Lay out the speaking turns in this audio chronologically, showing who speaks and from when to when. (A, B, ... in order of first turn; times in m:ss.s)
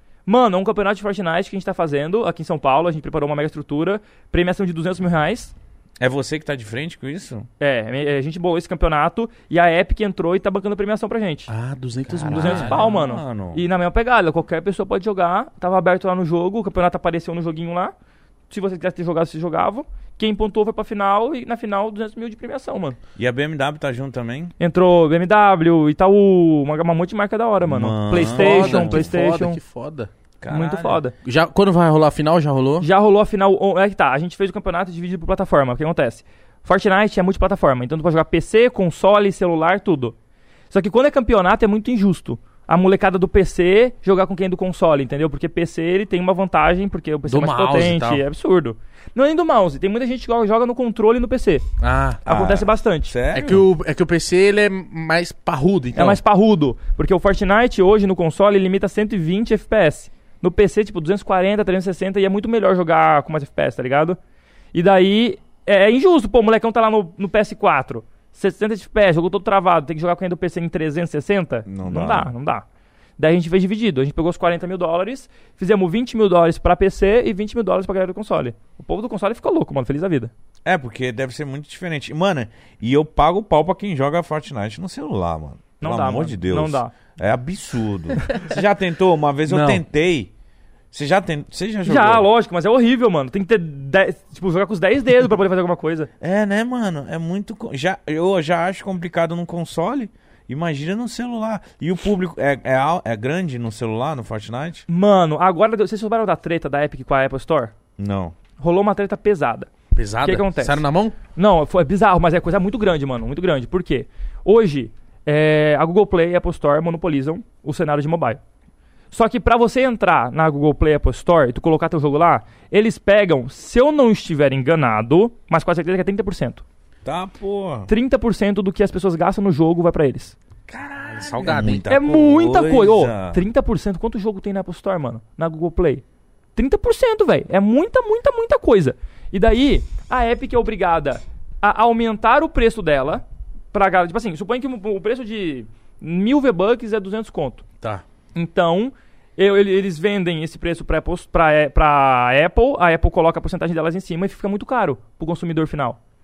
0:00.2-0:05.5 A
0:06.0-0:07.5 B
0:07.6-0:11.5 A
0:11.5-0:12.9 C
0:12.1-0:13.6 B
0:12.3-0:17.9 A
0:18.5-0:23.0 A
0:23.2-0:24.5 B
0:24.6-0:29.6 A
0:27.6-0:29.1 B
0:28.1-0:30.1 C
0:30.4-0:31.0 B
0:30.5-0:31.1 A
0:31.2-0:32.9 C
0:32.8-0:40.1 A
0:40.7-0:51.6 A
0:47.3-0:48.2 C
0:51.8-0:52.2 C
0:52.2-0:53.1 A
0:52.2-0:53.6 B
0:53.3-0:56.2 C
0:55.9-1:04.2 A
1:04.7-1:12.6 A
1:11.7-1:12.3 B
1:13.2-1:20.3 A
1:20.6-1:30.3 B
1:25.8-1:26.9 A
1:29.5-1:29.8 C
1:30.9-1:32.3 B
1:31.8-1:36.1 A
1:36.2-1:44.8 B
1:44.9-1:47.7 A
1:48.0-1:48.3 B
1:48.6-1:49.7 A
1:49.9-1:51.2 C
1:50.2-1:50.8 A
1:51.3-1:58.4 A
1:59.1-2:06.6 A
2:07.0-2:07.9 B
2:07.9-2:10.4 A
2:10.7-2:13.4 B
2:11.1-2:11.8 C
2:11.9-2:16.0 A
2:16.6-2:27.6 A
2:28.3-2:36.0 A